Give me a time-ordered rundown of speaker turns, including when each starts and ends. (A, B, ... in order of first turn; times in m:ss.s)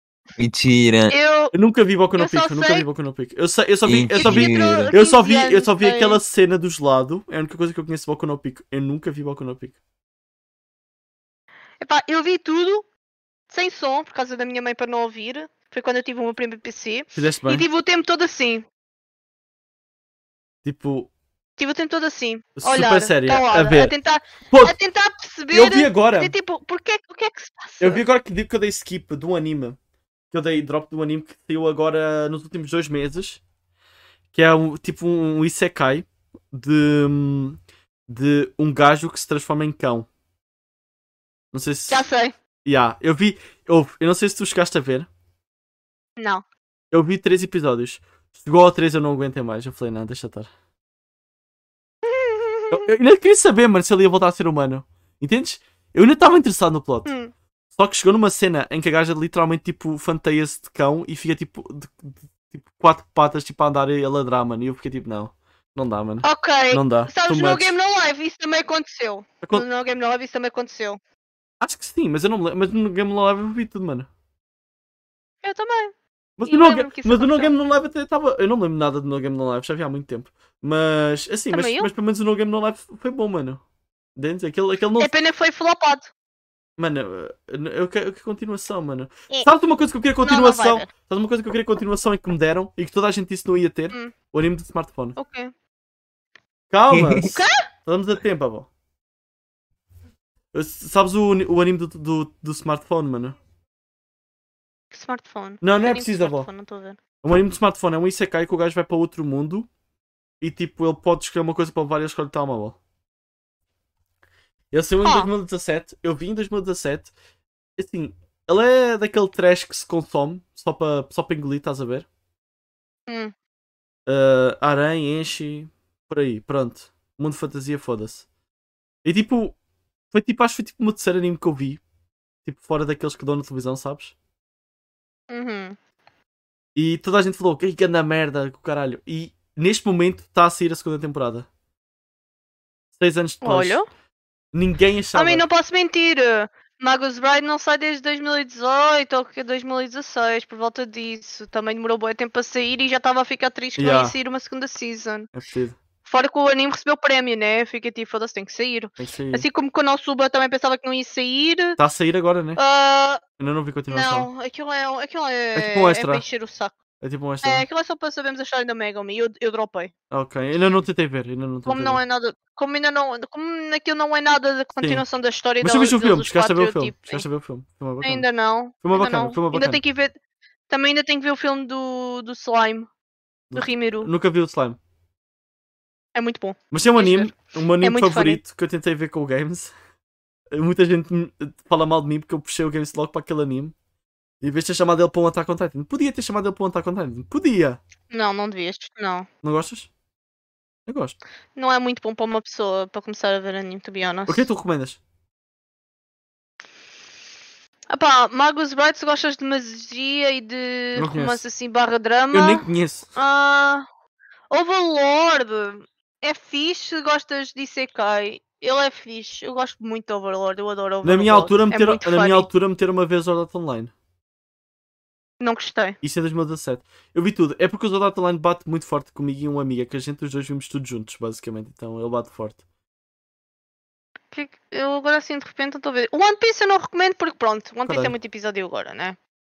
0:00.4-0:01.2 A
0:01.1-0:01.5 B
0:01.5-0:09.8 C
0:02.2-0:02.9 B
0:03.8-0:04.9 A
0:04.2-0:06.2 B
0:11.8-0:12.9 B
0:13.5-0:18.7 B
0:17.2-0:17.7 C
0:20.6-0:21.1 C
0:21.6-0:28.0 B
0:22.6-0:23.9 C
0:24.5-0:24.8 C
0:25.5-0:26.3 C
0:27.8-0:29.8 C
0:30.3-0:33.4 C
0:34.3-0:40.1 C
0:41.5-0:42.0 C
0:41.9-0:42.4 B
0:42.6-0:45.1 C
0:46.2-0:46.4 B
0:46.9-0:50.5 C
0:52.0-0:52.9 B
0:52.7-0:57.1 C
0:57.0-0:57.3 B
0:57.8-1:07.8 C
1:06.2-1:11.0 B
1:11.6-1:14.1 C
1:15.4-1:15.9 B
1:16.4-1:23.6 C
1:16.5-1:17.5 B
1:21.5-1:21.9 B
1:24.2-1:25.1 C
1:25.0-1:26.1 B
1:26.8-1:35.2 C
1:30.2-1:30.9 B
1:35.2-1:35.5 B
1:36.7-1:38.7 C
1:36.9-1:37.3 A
1:37.3-1:37.6 B
1:40.5-1:43.4 C
1:44.9-1:47.0 B
1:45.6-1:46.5 C
1:47.2-1:49.7 C
1:50.4-1:52.8 C
1:54.7-1:57.1 C
1:55.0-1:55.3 B
1:57.8-2:02.1 C
2:03.1-2:03.3 B
2:04.1-2:08.2 C
2:09.0-2:09.6 C
2:10.1-2:11.8 C
2:12.4-2:14.1 C
2:15.3-2:15.8 B
2:16.8-2:21.5 C
2:23.0-2:23.8 C
2:23.4-2:23.8 B
2:24.5-2:25.4 C
2:25.2-2:35.3 B
2:33.8-2:34.2 C
2:35.3-2:35.8 C
2:36.0-2:41.8 B
2:39.0-2:39.5 C
2:41.8-2:42.6 C
2:42.6-2:43.2 B
2:43.4-2:44.3 C
2:43.9-2:46.8 B
2:45.6-2:46.2 C
2:47.0-2:47.6 C
2:47.4-2:49.9 B
2:50.1-2:52.0 C
2:51.7-2:57.2 B
2:55.6-2:58.3 C
2:58.0-3:00.2 B
2:58.8-2:59.8 C
3:00.7-3:02.9 B
3:03.5-3:04.8 C
3:03.6-3:04.1 B
3:06.2-3:08.4 B
3:06.7-3:09.7 C
3:10.5-3:13.7 C
3:14.4-3:17.8 C
3:18.1-3:19.3 B
3:19.4-3:19.9 C
3:20.9-3:21.2 C
3:21.6-3:24.5 B
3:24.3-3:25.0 C
3:27.9-3:32.6 B
3:31.0-3:31.4 C
3:32.3-3:33.1 C
3:33.2-3:33.8 B
3:34.5-3:42.5 B
3:41.0-3:43.9 C
3:45.4-3:46.0 B
3:46.0-3:52.6 C
3:54.3-3:59.2 B
3:57.8-3:58.2 C